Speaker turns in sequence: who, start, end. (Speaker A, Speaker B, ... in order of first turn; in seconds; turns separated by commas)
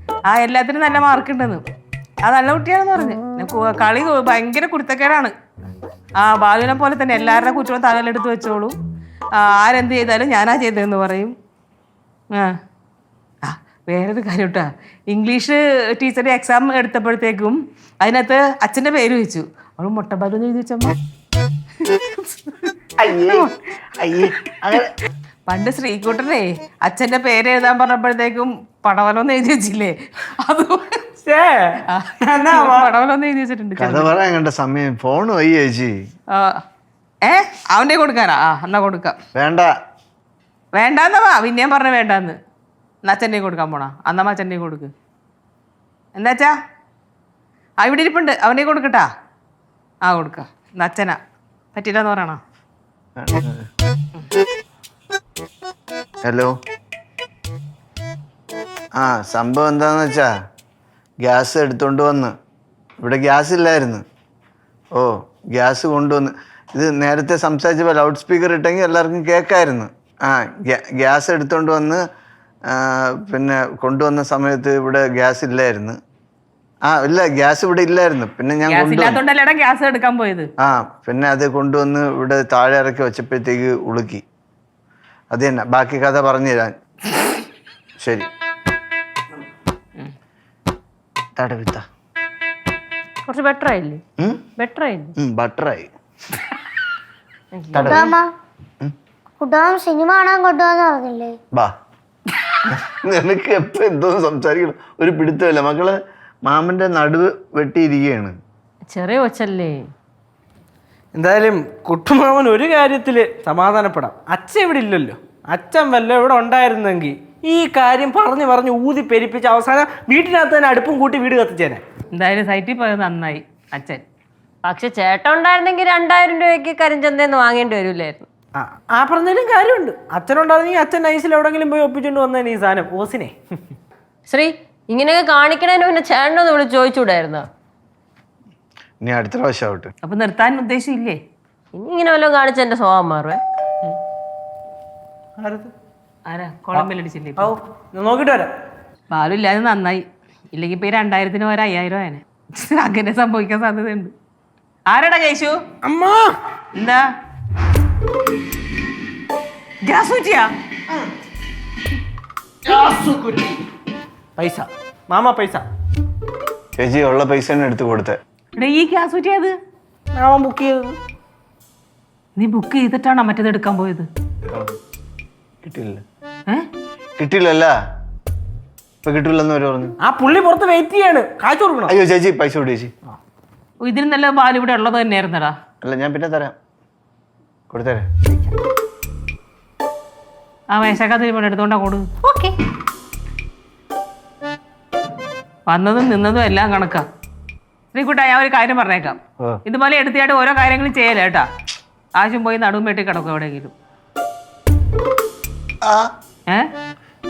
Speaker A: 0.3-1.6, Speaker A: 2.2-5.3, Speaker A: 6.2-8.8, Speaker A: 9.4-11.3, Speaker A: 13.4-20.9, Speaker A: 21.9-22.7, Speaker B: 23.0-24.9, Speaker A: 25.5-31.0, Speaker C: 31.2-32.9, Speaker A: 31.9-34.1, Speaker B: 33.8-36.0, Speaker A: 36.3-36.6, Speaker A: 37.2-39.2, Speaker B: 39.4-39.7, Speaker A: 40.8-42.4, Speaker A: 43.0-44.9, Speaker A: 46.1-46.5, Speaker A: 47.8-49.1, Speaker A: 50.1-51.2, Speaker A: 51.7-52.4, Speaker B: 53.2-53.7, Speaker B: 56.2-56.5, Speaker B: 59.0-60.3, Speaker B: 61.2-62.3, Speaker B: 63.0-64.0, Speaker B: 65.0-72.0, Speaker B: 72.7-76.0, Speaker B: 76.9-79.2, Speaker A: 78.7-80.5, Speaker B: 80.6-84.2, Speaker B: 85.3-86.8, Speaker B: 88.0-88.3, Speaker B: 91.4-91.8, Speaker D: 93.3-94.0, Speaker B: 94.2-94.5, Speaker D: 94.6-95.1, Speaker B: 95.2-95.9, Speaker D: 97.5-98.2, Speaker B: 97.7-98.1, Speaker E: 97.8-98.3, Speaker E: 99.4-101.4, Speaker B: 102.7-108.3, Speaker D: 108.9-109.9, Speaker C: 111.1-121.8, Speaker A: 122.1-124.0, Speaker D: 124.7-128.3, Speaker C: 128.6-133.3, Speaker D: 134.3-137.5, Speaker B: 139.0-139.9, Speaker A: 140.0-141.2, Speaker D: 141.8-143.4, Speaker C: 145.4-145.7, Speaker A: 146.3-147.5, Speaker C: 147.4-148.5, Speaker A: 149.1-154.1, Speaker A: 154.9-155.6, Speaker C: 155.8-156.3, Speaker A: 156.8-157.0, Speaker A: 159.8-160.5, Speaker C: 162.7-163.6, Speaker C: 164.4-165.7, Speaker B: 166.8-168.2, Speaker A: 168.6-169.6, Speaker C: 170.2-171.0, Speaker A: 172.4-174.1, Speaker B: 174.5-174.7, Speaker B: 175.6-176.0, Speaker B: 177.2-177.7, Speaker B: 179.1-179.9, Speaker C: 180.0-181.9, Speaker B: 181.9-182.9, Speaker A: 183.8-185.6, Speaker B: 185.8-186.6, Speaker B: 187.7-188.5, Speaker A: 190.7-192.2, Speaker A: 195.7-197.1, Speaker A: 197.9-201.5, Speaker A: 202.2-203.7, Speaker B: 205.8-206.1